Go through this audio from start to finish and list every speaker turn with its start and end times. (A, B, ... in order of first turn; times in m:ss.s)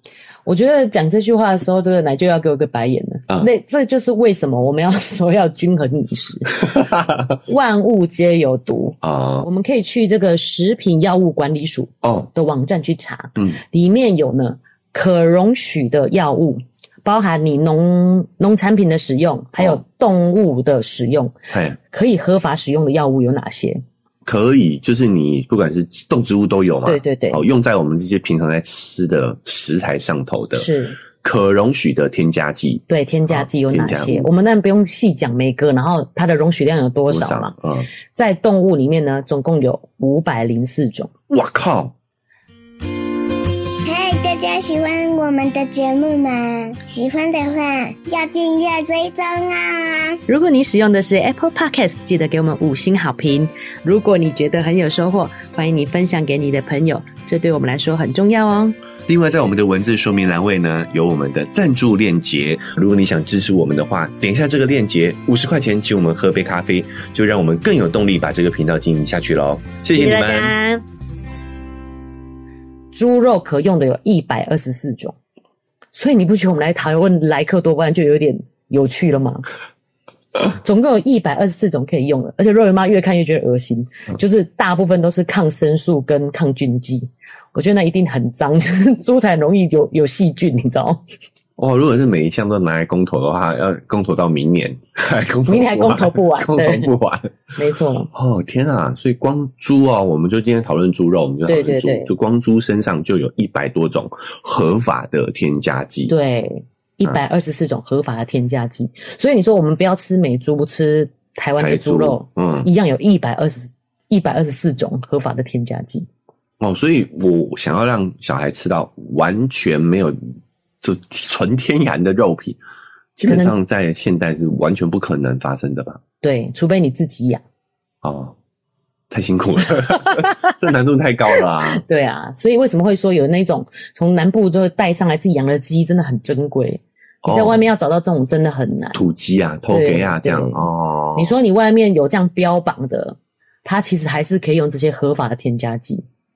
0:00.4-0:06.7 A
0:06.7-0:07.4 B
0:07.4-0:21.3 A
0:09.0-0:09.4 B
0:12.0-0:12.3 B
0:21.5-0:21.8 B
0:21.9-0:23.8 A
0:24.2-0:34.3 B
0:26.8-0:27.4 A
0:30.5-0:31.0 A
0:32.9-0:37.5 A
0:37.1-0:37.9 B
0:38.1-0:41.1 A
0:41.3-0:41.9 B
0:43.8-0:50.2 C
0:50.3-0:58.8 A
0:59.1-1:10.6 B
1:09.9-1:10.8 A
1:12.9-1:15.1 A
1:15.9-1:19.4 A
1:20.5-1:31.0 A
1:31.6-1:37.3 B
1:35.5-1:36.9 A
1:37.6-1:38.1 A
1:38.1-1:46.1 B
1:41.5-1:42.1 A
1:46.1-1:56.1 A
1:51.6-1:52.7 B
1:56.6-2:00.2 B
2:00.8-2:02.6 B
2:03.2-2:06.0 B
2:03.3-2:03.5 A
2:06.2-2:07.4 A
2:08.0-2:08.4 B
2:09.1-2:11.8 B
2:09.9-2:10.5 A
2:11.6-2:19.0 A
2:17.2-2:17.6 B
2:18.9-2:21.3 B
2:19.7-2:26.0 A